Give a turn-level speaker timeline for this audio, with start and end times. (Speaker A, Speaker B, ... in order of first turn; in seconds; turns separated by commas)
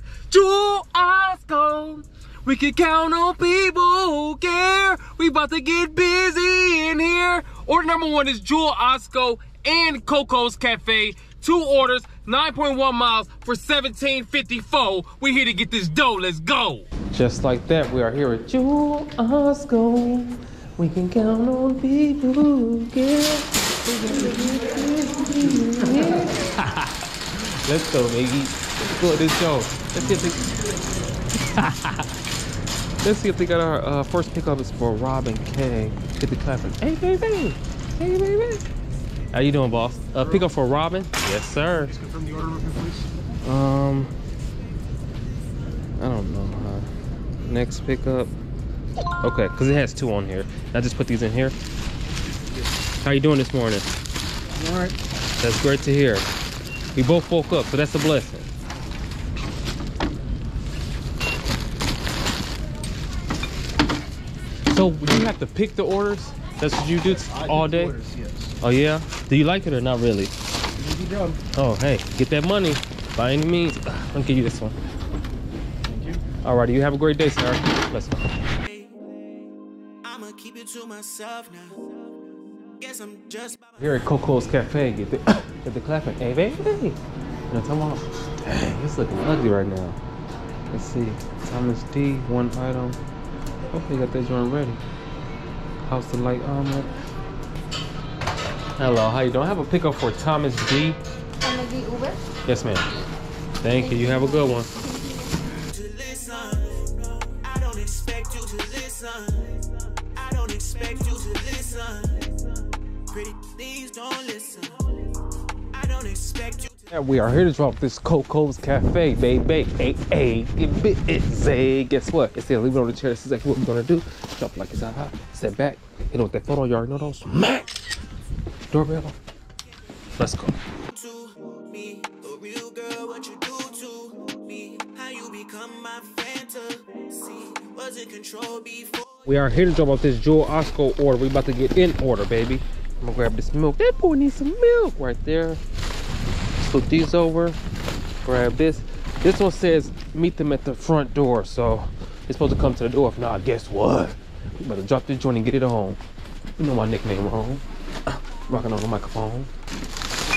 Speaker A: 0.3-30.5, Speaker A: 31.4-32.1, Speaker A: 33.0-38.6, Speaker A: 39.3-42.0, Speaker B: 42.0-43.0, Speaker A: 43.4-44.1, Speaker A: 46.0-46.9, Speaker A: 47.4-48.3, Speaker A: 49.2-51.5, Speaker A: 53.0-53.9, Speaker B: 54.6-54.9, Speaker A: 55.4-56.2, Speaker A: 56.9-58.5, Speaker A: 64.7-68.0, Speaker B: 67.6-68.5, Speaker C: 67.8-68.1, Speaker A: 68.6-70.3, Speaker C: 70.8-71.3, Speaker B: 71.0-71.3, Speaker A: 71.5-74.8, Speaker A: 76.4-78.3, Speaker C: 80.0-81.8, Speaker C: 82.8-83.7, Speaker A: 83.8-87.0, Speaker A: 87.5-90.0, Speaker A: 90.7-93.0, Speaker A: 93.7-94.8, Speaker A: 95.8-96.9, Speaker A: 98.8-101.0, Speaker D: 101.4-102.2, Speaker A: 102.4-102.9, Speaker A: 103.6-104.7, Speaker D: 103.7-105.6, Speaker C: 105.6-112.4, Speaker C: 113.1-114.8, Speaker C: 115.7-116.8, Speaker A: 116.9-127.7, Speaker A: 128.7-129.2, Speaker A: 130.2-130.6, Speaker C: 130.9-139.2, Speaker A: 139.2-145.6, Speaker A: 146.6-147.6, Speaker A: 148.2-156.0, Speaker A: 156.6-157.6, Speaker A: 158.5-159.5